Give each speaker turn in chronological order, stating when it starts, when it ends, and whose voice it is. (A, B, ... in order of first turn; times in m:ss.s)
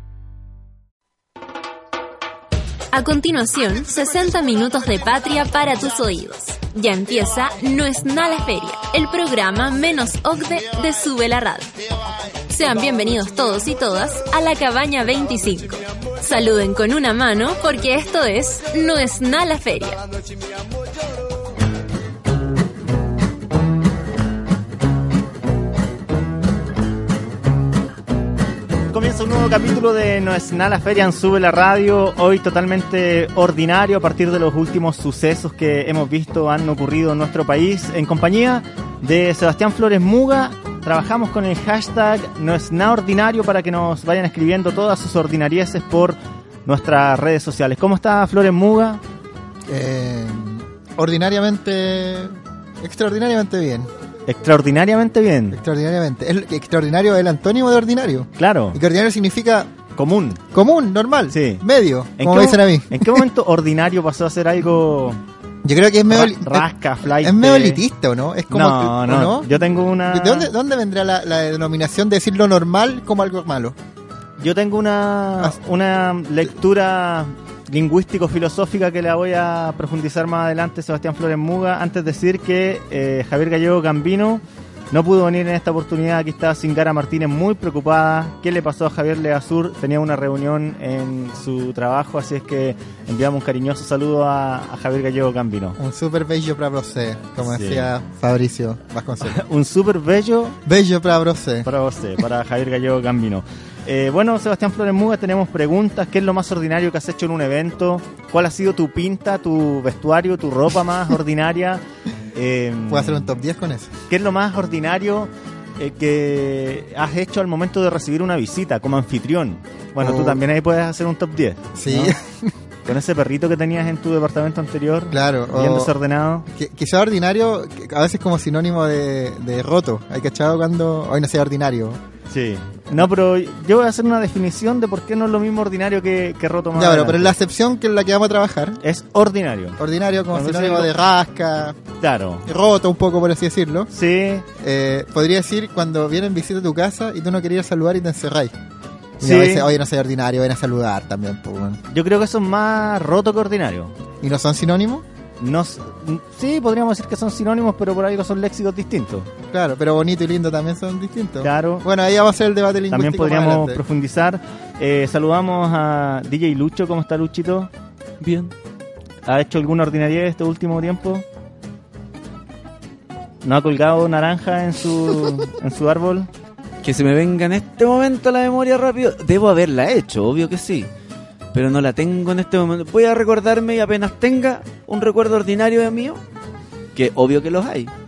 0:02.9-0:11.8 A
0:12.3-0:20.0 A
0:28.9-0:49.0 B
0:49.7-0:53.9 C
0:54.3-0:55.6 B
0:55.5-0:59.7 C
0:58.4-0:58.8 B
0:59.9-1:00.4 B
1:00.5-1:03.2 C
1:01.3-1:01.6 B
1:02.2-1:05.2 B
1:05.6-1:13.8 C
1:06.1-1:07.8 B
1:08.5-1:10.5 B
1:14.4-1:35.8 B
1:35.8-1:39.4 C
1:37.4-1:37.9 B
1:39.2-1:40.6 B
1:40.6-1:41.7 C
1:41.6-1:51.8 B
1:52.3-1:53.3 B
1:52.9-1:53.9 C
1:54.1-2:02.1 B
2:00.0-2:00.4 C
2:01.7-2:02.5 C
2:02.8-2:06.5 B
2:05.1-2:06.0 C
2:06.5-2:12.0 C
2:12.3-2:17.3 B
2:16.7-2:18.8 C
2:18.8-2:19.8 B
2:19.8-2:21.8 C
2:20.3-2:20.9 B
2:22.0-2:22.5 B
2:22.4-2:23.9 C
2:23.9-2:24.4 B
2:24.6-2:28.5 C
2:29.2-2:31.8 C
2:29.2-2:29.7 B
2:31.9-2:33.9 B
2:34.2-2:35.0 C
2:35.4-2:39.3 B
2:39.5-2:43.8 C
2:41.4-2:41.8 B
2:42.9-2:47.7 B
2:48.2-2:48.5 D
2:49.2-2:51.2 B
2:53.4-2:56.3 B
2:56.8-3:00.9 D
3:01.5-3:06.2 D
3:06.9-3:07.9 D